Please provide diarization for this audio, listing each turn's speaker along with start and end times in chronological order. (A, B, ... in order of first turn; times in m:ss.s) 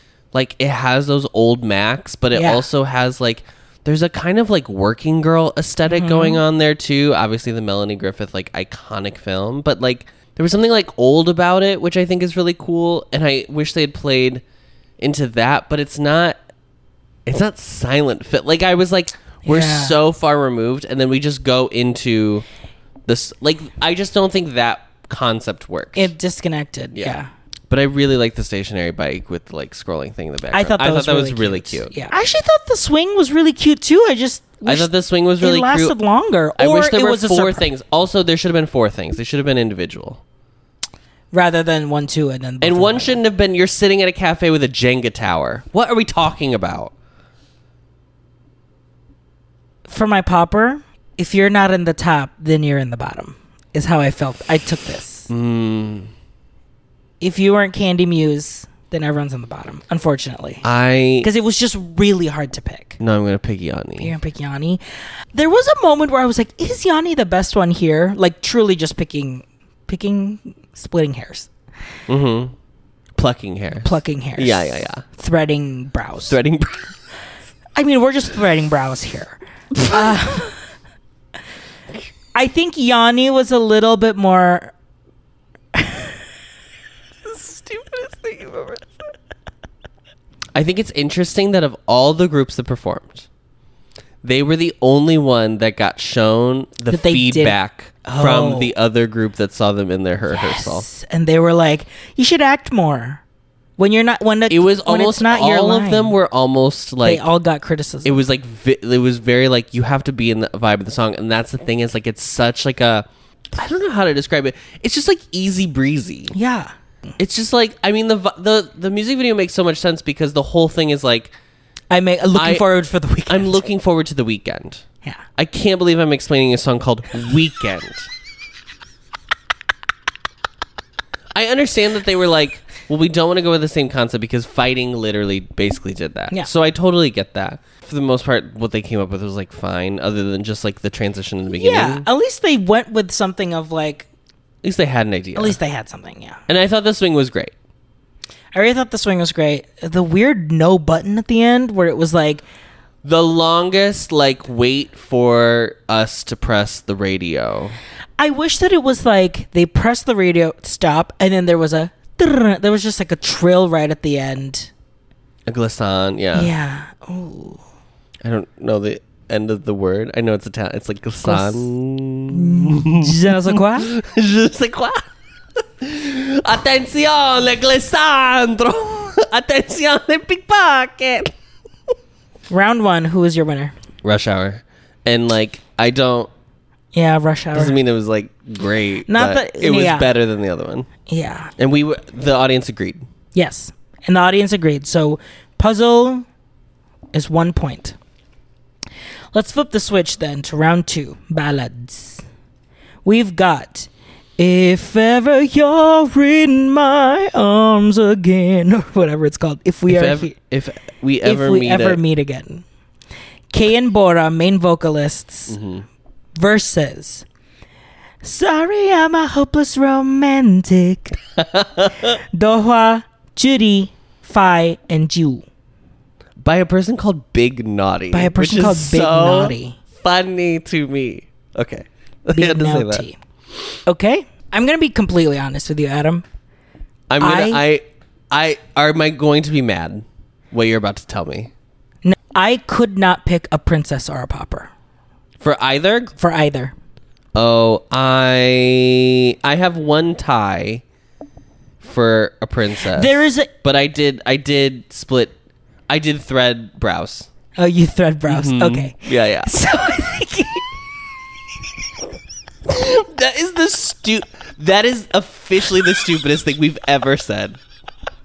0:00.3-0:14.4 A
0:02.3-0:02.6 B
0:05.9-0:06.4 B
0:15.0-0:16.4 A
0:17.3-0:22.4 A
0:19.4-0:20.0 B
0:23.1-0:26.1 A
0:26.0-0:27.3 B
0:27.7-0:32.0 A
0:30.5-0:37.7 B
0:34.6-0:36.0 A
0:36.6-0:40.2 A
0:41.3-0:43.2 B
0:42.6-0:46.9 A
0:49.9-0:55.3 B
0:55.3-0:56.1 A
0:57.2-1:00.6 B
1:00.6-1:01.3 A
1:01.2-1:03.0 B
1:03.0-1:04.1 A
1:04.0-1:04.8 B
1:05.3-1:11.5 B
1:12.1-1:12.5 A
1:13.2-1:15.0 A
1:13.8-1:16.4 B
1:16.2-1:16.9 A
1:17.8-1:20.6 B
1:19.8-1:20.3 A
1:22.3-1:24.7 B
1:25.8-1:26.1 B
1:27.2-1:28.9 A
1:30.6-1:33.3 A
1:34.2-1:40.9 A
1:36.9-1:38.7 B
1:40.3-1:43.2 B
1:43.8-1:46.2 B
1:44.5-1:47.2 A
1:47.0-1:48.2 B
1:48.0-1:56.3 A
1:56.3-1:57.1 B
1:57.2-2:01.3 A
2:01.9-2:03.6 B
2:02.4-2:02.6 A
2:03.3-2:04.8 A
2:05.4-2:08.1 A
2:11.3-2:22.1 A
2:21.5-2:24.1 B
2:24.6-2:25.6 A
2:25.4-2:26.4 B
2:26.5-2:27.5 A
2:28.5-2:32.4 B
2:33.0-2:37.8 A
2:38.2-2:44.7 B
2:45.5-2:46.5 A
2:46.3-2:47.6 B
2:48.2-3:01.3 A
2:51.2-2:51.7 B
2:52.3-2:53.9 B
3:02.5-3:03.7 B
3:04.0-3:06.3 A
3:06.9-3:07.8 B
3:07.6-3:10.9 A
3:09.1-3:10.1 B
3:11.1-3:11.5 B
3:11.6-3:13.0 A
3:13.3-3:16.2 B
3:17.1-3:18.0 B
3:19.3-3:22.2 B
3:23.0-3:30.4 B
3:29.9-3:32.0 A
3:31.2-3:32.6 B
3:33.5-3:35.6 B
3:35.5-3:35.8 A
3:36.4-3:37.2 B
3:38.2-3:41.2 B
3:41.4-3:42.2 A
3:42.3-3:45.4 B
3:46.4-3:53.1 A
3:48.1-3:49.8 B
3:52.3-3:53.2 B
3:53.9-3:56.2 B
3:57.1-4:01.5 A
3:57.2-3:57.6 B
4:02.0-4:04.7 B
4:05.4-4:06.2 A
4:06.2-4:06.8 B
4:07.4-4:10.8 A
4:11.8-4:15.4 A
4:12.8-4:13.5 B
4:15.9-4:17.3 A
4:17.6-4:20.7 B
4:18.3-4:19.6 A
4:22.7-4:27.6 A